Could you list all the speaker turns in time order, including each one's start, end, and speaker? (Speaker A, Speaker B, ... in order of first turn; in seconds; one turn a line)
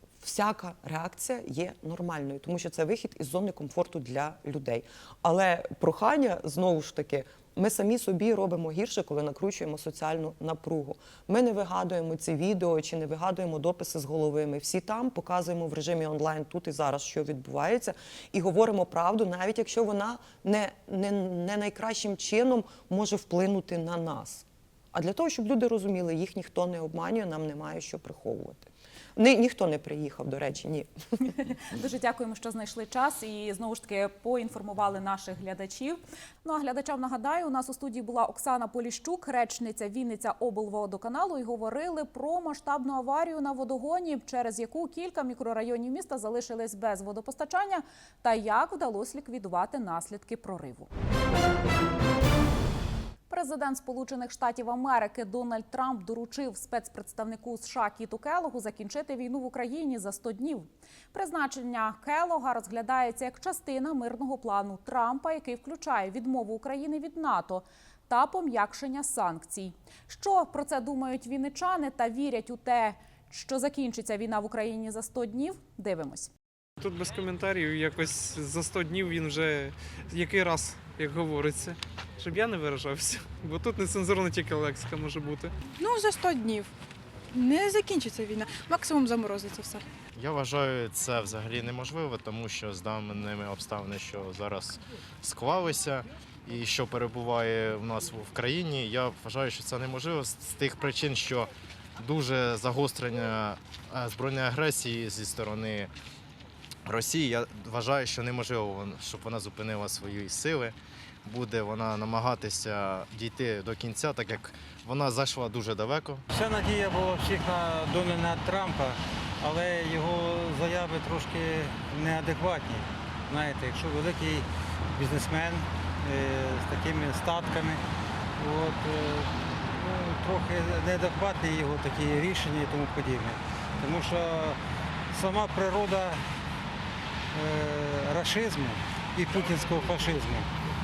Speaker A: 0.2-30.9
Speaker B: 31.4-50.9
Speaker B: 53.3-76.3
Speaker C: 76.8-85.5
Speaker D: 85.8-86.7
Speaker D: 87.3-89.8
Speaker E: 90.2-105.9
Speaker E: 106.8-116.2
Speaker F: 116.3-127.8
Speaker F: 128.4-134.6
Speaker F: 135.1-136.2
Speaker F: 137.3-140.5